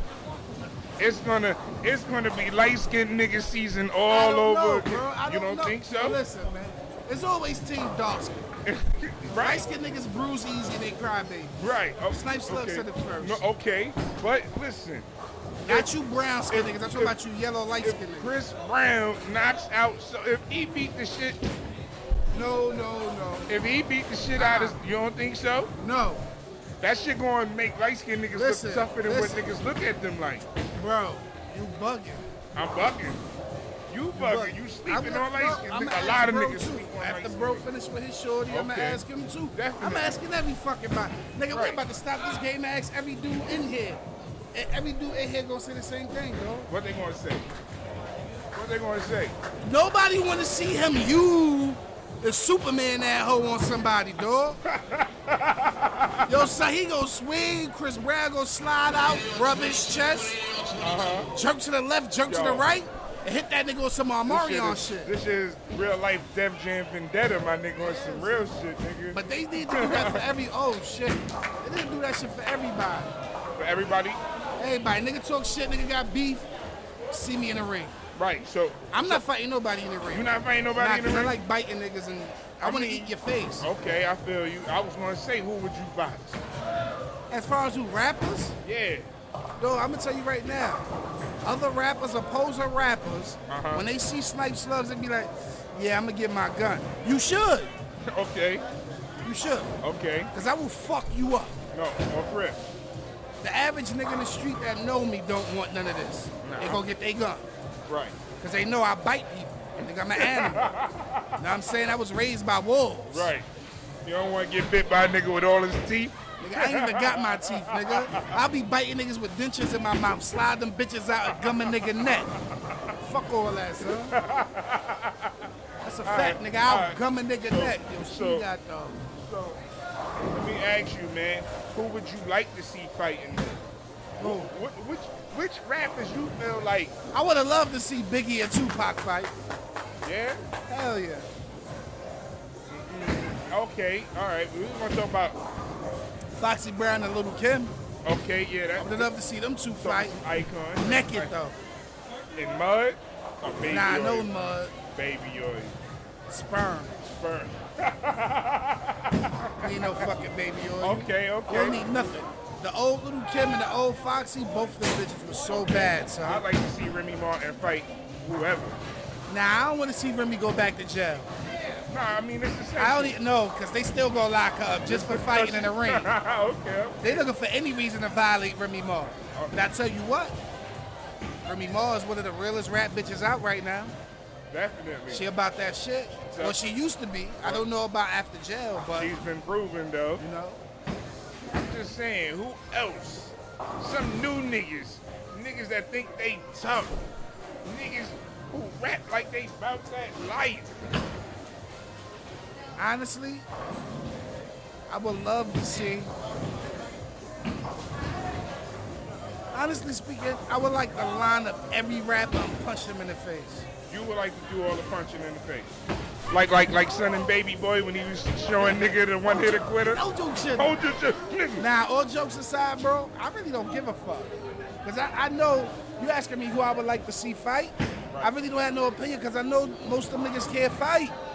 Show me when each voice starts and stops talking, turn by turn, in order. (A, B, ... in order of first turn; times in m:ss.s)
0:01.0-0:06.2 A
0:04.1-0:08.4 B
0:08.6-0:09.6 A
0:09.3-0:13.4 B
0:11.6-0:15.1 A
0:15.6-0:18.3 B
0:16.5-0:17.1 A
0:17.8-0:21.4 A
0:22.3-0:23.5 B
0:23.5-0:25.7 A
0:24.3-0:24.8 B
0:25.8-0:26.2 B
0:26.8-0:30.4 A
0:28.3-0:29.5 B
0:30.8-0:32.2 B
0:32.5-0:33.2 A
0:33.9-0:37.7 A
0:34.1-0:44.0 B
0:38.5-0:40.2 A
0:41.5-0:41.8 A
0:44.5-0:46.7 B
0:46.7-0:47.5 A
0:48.5-0:49.3 A
0:49.6-0:54.6 B
0:54.6-0:56.4 A
0:56.2-1:00.4 B
1:00.8-1:01.3 A
1:01.3-1:05.1 B
1:02.3-1:02.6 A
1:04.3-1:10.2 A
1:07.8-1:08.4 B
1:09.1-1:13.1 B
1:13.5-1:14.2 A
1:14.6-1:16.5 B
1:17.1-1:18.0 B
1:18.1-1:19.2 A
1:18.9-1:23.7 B
1:20.1-1:21.4 A
1:22.6-1:26.4 A
1:27.3-1:28.6 B
1:28.6-1:29.1 A
1:29.6-1:30.8 B
1:31.4-1:37.7 B
1:33.5-1:33.8 A
1:38.0-1:38.6 A
1:39.2-1:39.7 B
1:39.8-1:40.3 A
1:40.3-1:41.6 B
1:41.7-1:42.6 A
1:43.4-1:47.5 B
1:46.4-1:46.8 A
1:47.8-1:48.2 A
1:48.4-1:50.8 B
1:49.8-1:51.4 A
1:51.4-1:53.3 B
1:53.1-1:53.5 A
1:54.0-1:58.3 A
1:56.4-2:02.3 B
2:03.0-2:04.2 B
2:03.8-2:05.5 A
2:05.8-2:09.0 B
2:06.0-2:08.5 A
2:09.1-2:09.6 A
2:10.2-2:13.6 A
2:14.2-2:14.5 B
2:14.2-2:16.9 A
2:17.1-2:19.3 B
2:20.0-2:20.4 A
2:20.7-2:21.3 B
2:22.7-2:25.4 A
2:26.3-2:27.7 B
2:28.0-2:29.1 A
2:28.8-2:30.2 B
2:29.8-2:31.3 A
2:30.8-2:31.6 B
2:32.3-2:34.3 A
2:33.6-2:34.7 B
2:34.9-2:35.8 A
2:36.3-2:37.1 B
2:37.1-2:40.0 A
2:39.6-2:46.4 B
2:40.8-2:41.8 A
2:45.5-2:48.8 A
2:49.3-2:51.3 B
2:51.5-2:53.2 A
2:52.8-2:56.1 B
2:54.9-2:57.3 A
2:57.0-3:00.4 B
3:01.4-3:03.9 B
3:04.5-3:05.2 A
3:05.1-3:09.1 B
3:06.3-3:06.8 A
3:09.0-3:10.2 A
3:10.2-3:10.6 B
3:11.5-3:17.0 A
3:17.6-3:20.9 A
3:22.8-3:23.4 B
3:24.9-3:26.1 B
3:29.5-3:33.6 B
3:33.9-3:35.8 A
3:36.3-3:40.0 A
3:38.6-3:40.8 B
3:40.5-3:41.6 A
3:41.6-3:51.2 B